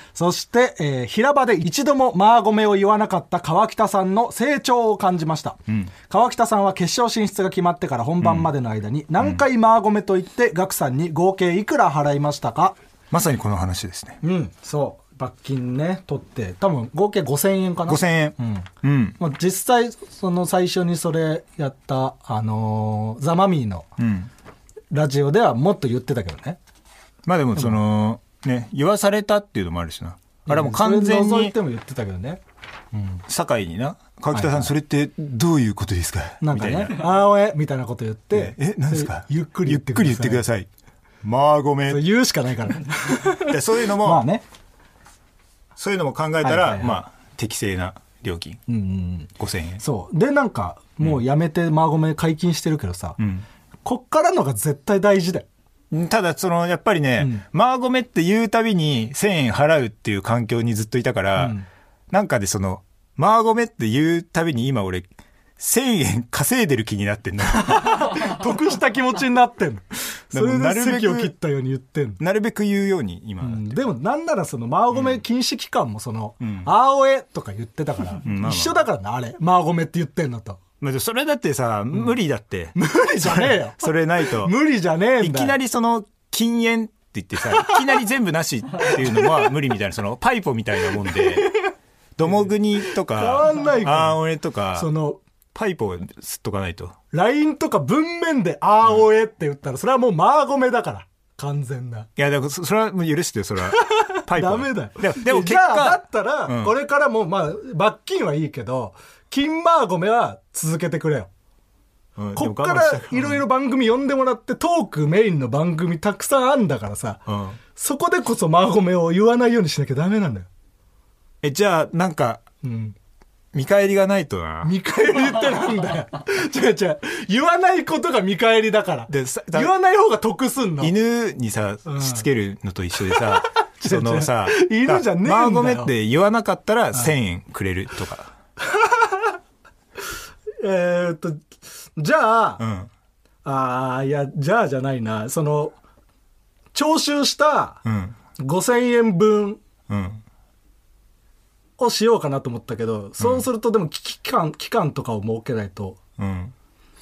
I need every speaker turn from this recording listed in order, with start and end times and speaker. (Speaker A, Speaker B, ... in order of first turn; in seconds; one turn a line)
Speaker A: 0.1-12.8
Speaker B: 8.2-8.5
Speaker B: 13.1-14.2
Speaker A: 14.2-23.9
Speaker B: 17.9-19.2
Speaker B: 24.0-24.3
Speaker A: 24.9-26.6
Speaker B: 27.2-31.5
Speaker A: 30.4-32.4
Speaker A: 32.9-33.2
Speaker B: 33.3-37.1
Speaker A: 34.3-34.7
Speaker A: 36.4-40.4
Speaker B: 38.3-40.7
Speaker B: 41.2-42.0
Speaker A: 41.9-44.4
Speaker B: 43.4-44.2
Speaker B: 45.8-48.6
Speaker A: 46.4-47.0
Speaker A: 48.7-53.2
Speaker B: 49.4-49.8
Speaker B: 53.2-53.5
Speaker A: 53.8-55.5
Speaker B: 55.9-61.6
Speaker A: 61.4-61.7
Speaker B: 62.1-68.3
Speaker A: 67.6-72.2
Speaker B: 70.3-71.3
Speaker B: 72.2-73.8
Speaker A: 73.4-80.6
Speaker B: 74.9-75.2
Speaker B: 76.4-76.7
Speaker B: 78.2-78.8
Speaker B: 80.8-84.5
Speaker A: 82.8-85.6
Speaker B: 85.2-91.5
Speaker A: 91.3-91.6
Speaker B: 92.2-94.9
Speaker A: 92.2-94.2
Speaker A: 94.7-95.2
Speaker B: 95.5-97.0
Speaker A: 97.1-102.1
Speaker B: 102.2-106.7
Speaker A: 103.8-111.3
Speaker B: 112.2-113.4
Speaker A: 112.3-117.2
Speaker B: 117.3-117.6
Speaker A: 117.7-120.5
Speaker B: 121.4-122.4
Speaker A: 122.6-122.9
Speaker B: 123.5-124.7
Speaker A: 124.6-130.9
Speaker B: 129.1-129.7
Speaker B: 130.8-138.3
Speaker A: 131.8-132.2
Speaker A: 133.1-135.9
Speaker A: 138.7-139.3
Speaker A: 140.6-142.6
Speaker B: 142.6-142.9
Speaker A: 143.4-145.8
Speaker A: 146.7-147.8
Speaker B: 147.8-148.2
Speaker A: 148.4-149.6
Speaker B: 149.9-150.2
Speaker A: 151.8-156.0
Speaker B: 153.2-153.4
Speaker B: 156.2-156.5